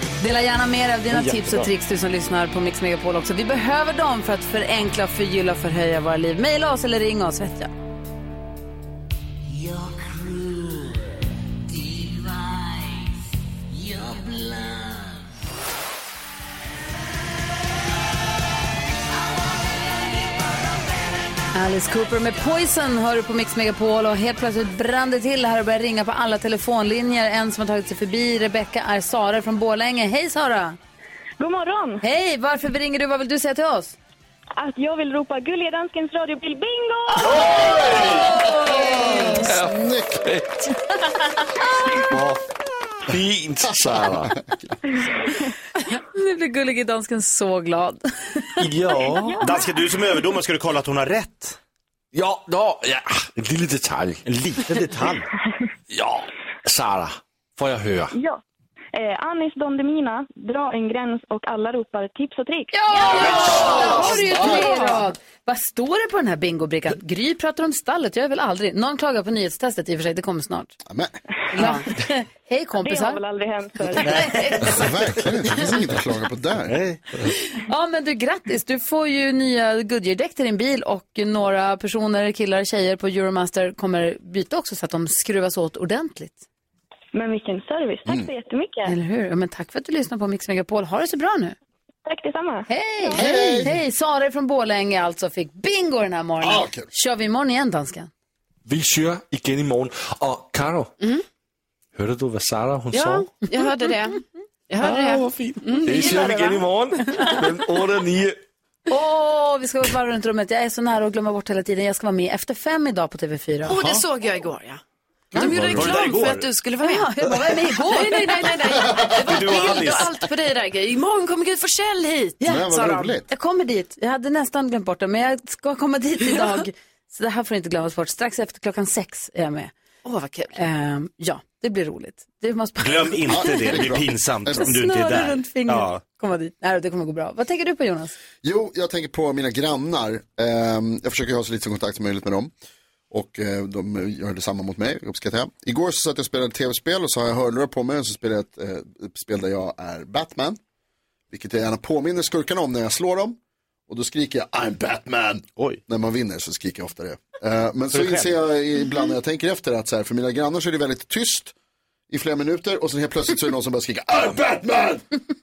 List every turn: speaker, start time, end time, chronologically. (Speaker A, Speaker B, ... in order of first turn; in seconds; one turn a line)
Speaker A: 0.2-7.7
Speaker B: 1.1-1.7
Speaker A: 21.5-30.8
Speaker C: 31.4-32.0
Speaker A: 32.0-34.0
Speaker C: 34.6-37.6
Speaker D: 37.4-38.1
Speaker E: 37.8-38.1
Speaker A: 38.5-39.5
Speaker E: 39.5-40.5
Speaker D: 39.7-40.2
Speaker E: 42.1-42.4
Speaker E: 43.1-44.4
Speaker A: 45.9-48.5
Speaker E: 48.6-49.4
Speaker C: 49.1-49.5
Speaker B: 49.4-51.6
Speaker E: 52.1-54.2
Speaker B: 54.3-55.3
Speaker E: 55.9-58.1
Speaker C: 58.1-58.4
Speaker C: 58.9-63.2
Speaker A: 62.7-70.7
Speaker F: 63.3-63.7
Speaker E: 63.5-63.9
Speaker D: 63.6-64.7
Speaker F: 64.5-65.0
Speaker D: 70.9-71.2
Speaker A: 71.5-73.2
Speaker C: 72.8-74.3
Speaker B: 74.0-74.8
Speaker A: 74.1-74.8
Speaker D: 74.7-76.8
Speaker B: 76.7-77.0
Speaker A: 77.7-86.4
Speaker C: 87.1-89.0
Speaker A: 88.9-91.6
Speaker C: 92.1-93.5
Speaker A: 92.7-98.1
Speaker D: 93.1-93.8
Speaker D: 96.4-96.9
Speaker E: 98.7-100.9
Speaker E: 102.0-103.3
Speaker F: 102.9-106.7
Speaker E: 104.8-108.4
Speaker A: 108.9-113.8
Speaker F: 113.7-114.8
Speaker D: 113.7-114.0
Speaker D: 115.3-115.9
Speaker F: 115.3-117.1
Speaker B: 115.4-116.5
Speaker A: 116.8-118.4
Speaker F: 117.9-123.2
Speaker B: 119.2-120.1
Speaker A: 122.4-129.7
Speaker D: 122.5-123.2
Speaker F: 126.3-126.6
Speaker F: 130.0-130.6
Speaker A: 130.5-133.8
Speaker B: 132.8-136.0
Speaker D: 133.3-134.7
Speaker A: 134.6-138.1
Speaker D: 138.4-142.5
Speaker D: 143.1-150.6
Speaker D: 151.3-153.4
Speaker D: 153.9-161.5
Speaker B: 157.9-158.3
Speaker D: 162.1-165.0